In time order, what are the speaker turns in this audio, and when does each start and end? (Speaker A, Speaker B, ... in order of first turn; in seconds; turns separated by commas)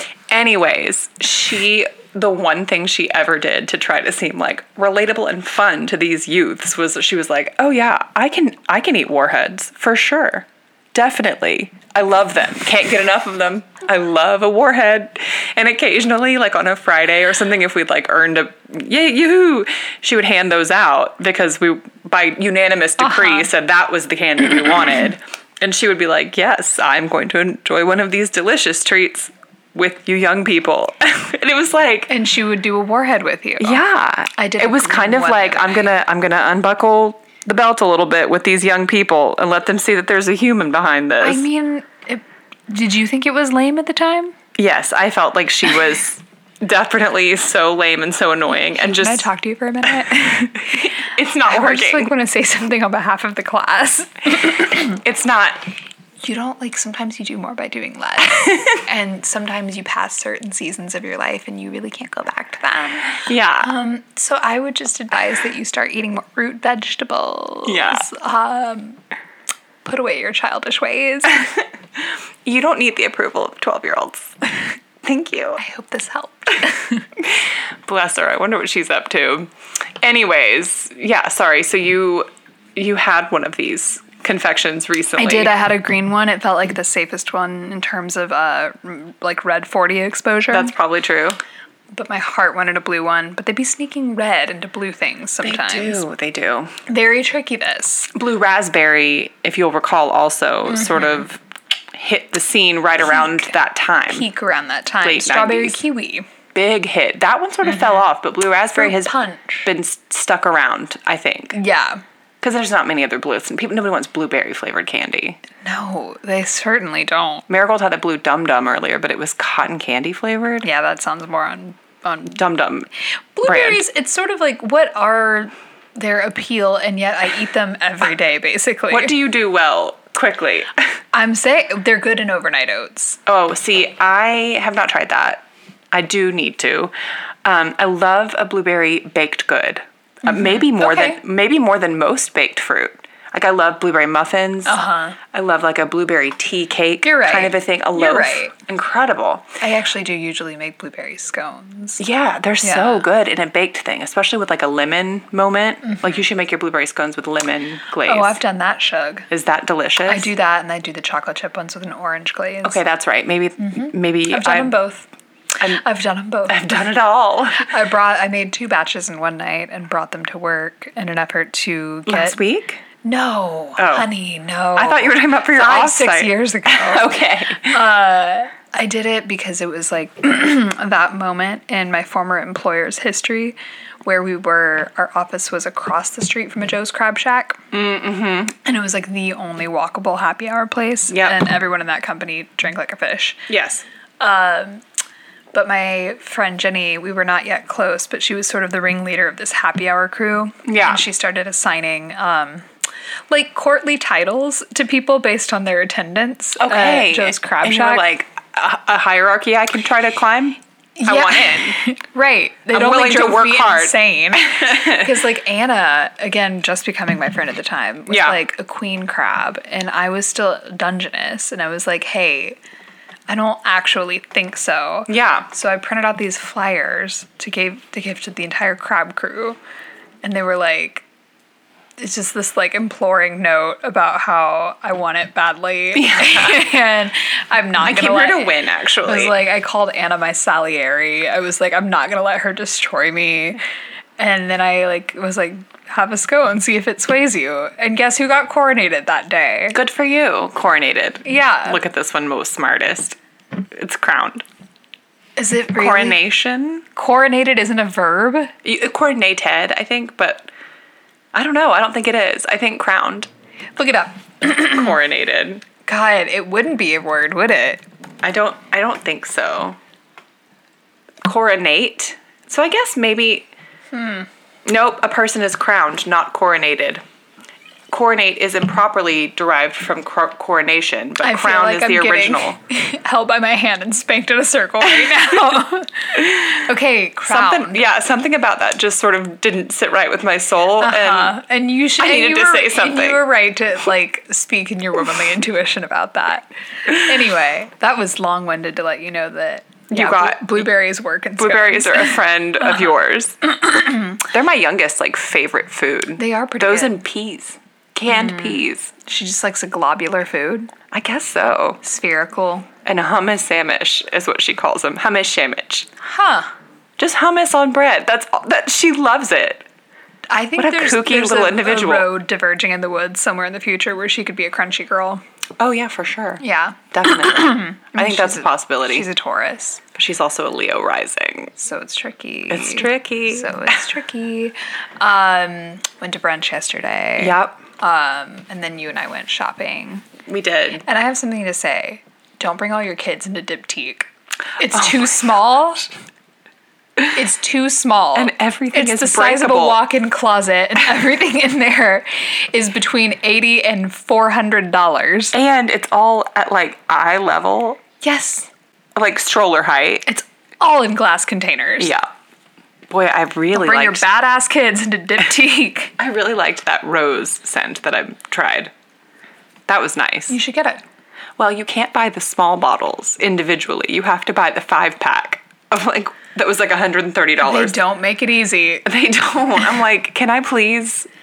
Speaker A: 0.3-32.1, Speaker B: 23.0-23.5, Speaker B: 32.1-33.8, Speaker A: 33.6-41.5, Speaker B: 34.4-35.8, Speaker B: 41.2-44.4, Speaker A: 44.5-49.3, Speaker B: 48.8-55.0, Speaker A: 50.7-52.1, Speaker A: 54.6-55.6, Speaker B: 56.2-69.0, Speaker A: 63.2-63.7, Speaker A: 67.7-68.1, Speaker B: 69.8-71.5, Speaker A: 72.4-74.3, Speaker A: 75.0-75.6, Speaker B: 75.6-77.0, Speaker A: 77.2-85.5, Speaker B: 85.2-90.7, Speaker A: 90.5-91.4, Speaker B: 91.9-96.0, Speaker A: 95.4-96.7, Speaker B: 96.9-98.1, Speaker A: 98.1-101.4, Speaker B: 100.8-101.2, Speaker A: 101.9-104.3, Speaker B: 104.1-106.3, Speaker A: 105.0-105.8, Speaker A: 106.5-109.1, Speaker B: 108.7-109.7, Speaker A: 109.6-111.6, Speaker B: 111.5-112.0, Speaker A: 112.4-115.4, Speaker B: 115.6-117.5, Speaker A: 117.5-120.7, Speaker B: 120.6-122.4, Speaker A: 122.3-122.9, Speaker B: 123.3-129.1, Speaker A: 123.5-123.8, Speaker A: 128.9-130.7, Speaker B: 131.1-133.2, Speaker A: 133.2-136.9, Speaker A: 137.4-144.8, Speaker B: 140.2-141.2, Speaker B: 144.7-145.2, Speaker A: 145.3-149.5, Speaker B: 147.0-148.5, Speaker B: 149.6-152.0, Speaker A: 152.0-158.4, Speaker B: 152.6-153.1, Speaker B: 158.0-159.3, Speaker A: 159.3-160.3, Speaker B: 160.0-162.8, Speaker A: 162.6-164.7, Speaker B: 163.6-165.1, Speaker B: 165.6-166.8, Speaker A: 166.5-167.7, Speaker B: 167.5-172.4, Speaker A: 172.1-172.8, Speaker B: 173.0-187.6, Speaker A: 173.8-174.1, Speaker A: 174.8-177.8, Speaker A: 187.7-188.6, Speaker B: 188.6-193.4, Speaker A: 191.1-191.4, Speaker A: 193.5-193.8, Speaker B: 194.2-194.8, Speaker B: 195.5-202.7, Speaker A: 200.6-201.0, Speaker B: 203.3-208.0, Speaker A: 206.6-211.8, Speaker B: 211.0-222.6, Speaker A: 212.7-215.1, Speaker A: 218.1-218.4, Speaker B: 223.3-229.6, Speaker A: 225.1-225.5, Speaker B: 230.2-231.0, Speaker B: 232.0-243.6, Speaker A: 235.9-236.7, Speaker A: 237.8-239.3, Speaker B: 244.2-249.8, Speaker A: 249.7-254.4, Speaker B: 251.2-251.8, Speaker B: 255.4-256.2, Speaker A: 255.7-256.8, Speaker B: 256.9-258.5, Speaker A: 258.6-260.5, Speaker A: 261.3-263.3, Speaker B: 263.8-264.9, Speaker A: 264.6-265.6, Speaker B: 265.9-267.8, Speaker A: 268.2-269.8, Speaker A: 271.2-273.5, Speaker B: 273.9-274.3, Speaker A: 274.6-277.0, Speaker A: 277.9-282.6, Speaker B: 281.2-287.8, Speaker A: 285.0-285.4, Speaker A: 286.1-286.6, Speaker A: 287.2-291.4, Speaker B: 290.8-302.2, Speaker A: 292.0-293.2, Speaker A: 299.9-300.7, Speaker A: 301.4-303.5, Speaker B: 303.6-304.2, Speaker A: 304.2-308.9, Speaker B: 306.2-306.9, Speaker B: 308.1-310.7, Speaker A: 310.9-311.8, Speaker B: 311.8-312.7, Speaker A: 312.8-315.9, Speaker B: 316.0-316.5, Speaker A: 317.0-319.6, Speaker B: 320.3-325.2, Speaker A: 320.6-322.1, Speaker A: 325.6-329.1, Speaker B: 326.4-329.8, Speaker A: 329.9-331.5, Speaker B: 331.6-340.1, Speaker A: 332.5-333.5, Speaker A: 337.2-337.6, Speaker A: 340.2-340.8, Speaker B: 340.8-345.9, Speaker B: 347.1-355.3, Speaker A: 348.1-349.8, Speaker A: 355.3-357.8, Speaker B: 358.0-358.5, Speaker A: 358.9-360.1, Speaker B: 360.1-361.9, Speaker A: 361.8-362.1, Speaker A: 362.9-364.1, Speaker B: 363.5-365.9, Speaker A: 366.0-368.7, Speaker A: 369.7-370.4, Speaker B: 370.3-370.8, Speaker A: 371.4-377.8, Speaker B: 377.4-378.9, Speaker A: 378.8-381.1